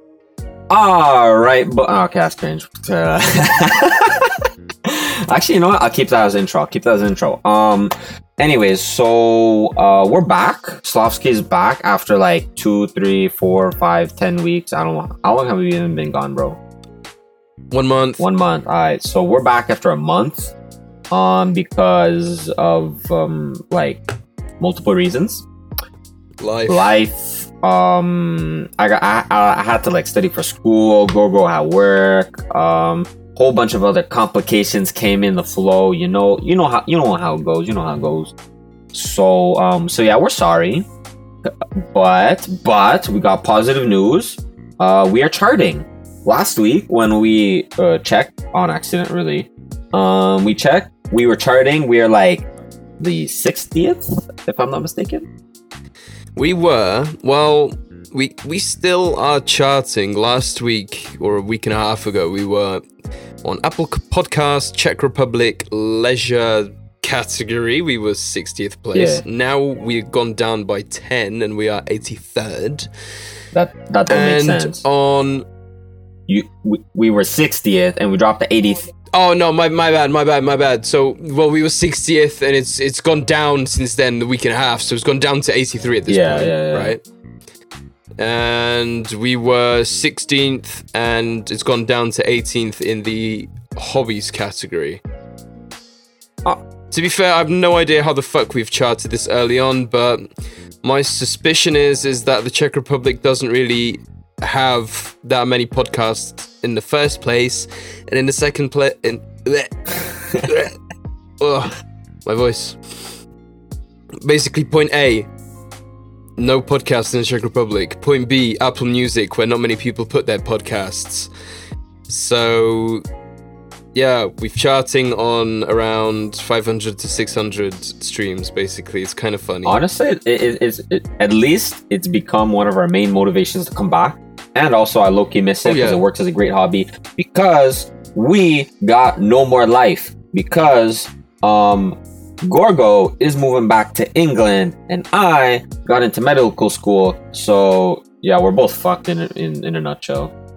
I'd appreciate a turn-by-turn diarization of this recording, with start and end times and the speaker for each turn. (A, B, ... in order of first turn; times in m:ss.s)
0:00.7-0:16.6 A
0:17.7-0:18.2 B
0:18.2-0:20.5 A
0:21.1-0:24.0 A
0:24.6-0:25.4 A
0:26.4-0:26.9 B
0:26.7-0:38.3 A
0:38.9-0:40.8 A
0:41.4-0:52.5 A
0:53.0-0:55.3 A
0:56.4-1:02.8 B
1:03.4-1:12.9 B
1:08.9-1:09.2 A
1:13.5-1:14.8 A
1:14.1-1:15.4 B
1:16.3-1:18.9 A
1:19.1-1:27.0 B
1:26.1-1:26.9 A
1:28.2-1:35.0 B
1:36.9-1:40.3 B
1:40.8-1:50.7 B
1:51.4-1:51.7 B
1:52.2-1:52.8 B
1:54.2-1:55.3 B
1:56.4-2:01.3 B
2:02.1-2:03.0 B
2:03.9-2:09.8 B
2:09.6-2:30.3 A
2:15.6-2:16.0 B